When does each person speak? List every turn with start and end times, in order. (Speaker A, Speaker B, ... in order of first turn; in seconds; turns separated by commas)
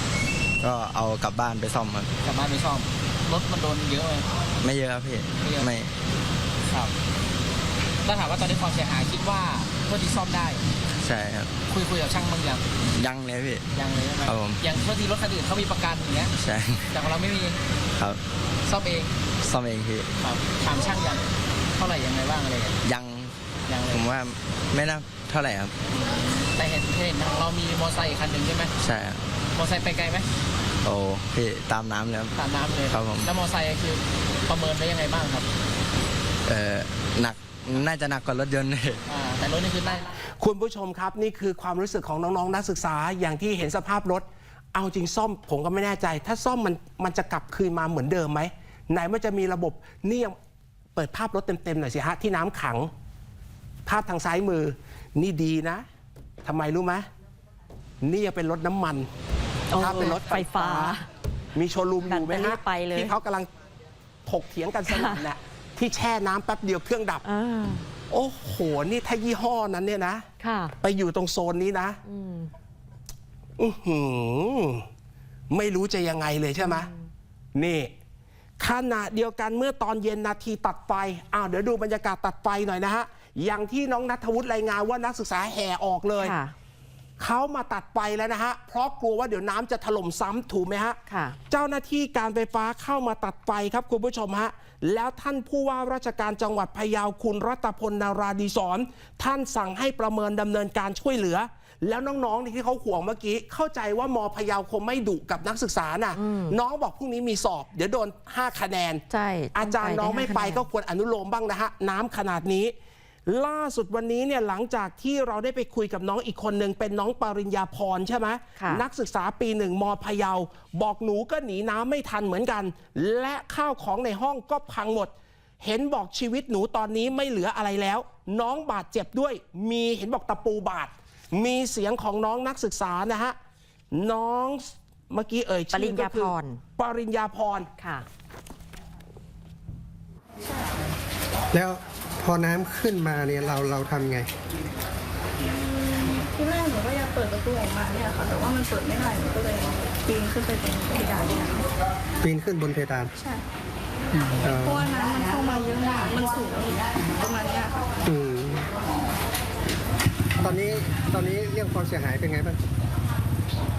Speaker A: 0.6-2.1, Speaker B: 2.2-4.3, Speaker A: 4.6-5.9, Speaker B: 5.4-5.7, Speaker B: 6.7-6.9, Speaker B: 8.1-10.7, Speaker A: 11.0-11.5, Speaker B: 11.7-12.7, Speaker A: 12.9-13.6, Speaker B: 13.7-16.3, Speaker A: 14.3-14.7, Speaker A: 16.4-16.9, Speaker B: 16.9-17.6, Speaker B: 18.7-19.1, Speaker A: 19.4-20.1, Speaker B: 20.2-22.8, Speaker A: 22.8-23.4, Speaker B: 23.7-24.1, Speaker A: 23.9-25.7, Speaker B: 25.9-28.7, Speaker A: 28.8-29.2, Speaker B: 29.6-30.3, Speaker A: 30.8-32.3, Speaker B: 32.4-35.5, Speaker A: 32.9-33.3, Speaker A: 36.5-39.0, Speaker B: 39.1-40.1, Speaker C: 40.4-50.4, Speaker C: 51.0-52.9, Speaker C: 53.9-55.8, Speaker C: 56.4-57.1, Speaker C: 58.0-59.1, Speaker D: 59.7-61.1, Speaker C: 59.7-61.0, Speaker C: 61.5-63.5, Speaker D: 62.0-63.1, Speaker C: 64.3-67.2, Speaker D: 64.9-65.2, Speaker D: 67.2-67.9, Speaker C: 68.1-70.3, Speaker D: 70.4-70.7, Speaker C: 70.8-72.0, Speaker D: 72.1-72.5, Speaker C: 73.6-74.8, Speaker C: 75.5-76.9, Speaker D: 76.6-77.0, Speaker C: 77.5-77.9, Speaker C: 78.6-86.4, Speaker D: 86.2-86.5, Speaker C: 87.2-91.0, Speaker D: 91.1-91.4, Speaker C: 91.5-112.7, Speaker D: 106.2-106.5, Speaker D: 109.1-110.6, Speaker C: 113.3-133.4, Speaker D: 118.6-118.8, Speaker C: 133.9-137.7, Speaker D: 135.7-136.6, Speaker D: 137.8-138.1, Speaker E: 141.5-144.3, Speaker F: 145.5-151.7, Speaker E: 152.2-153.1, Speaker E: 154.4-154.9, Speaker F: 154.7-157.9, Speaker E: 158.1-158.7, Speaker E: 160.4-162.6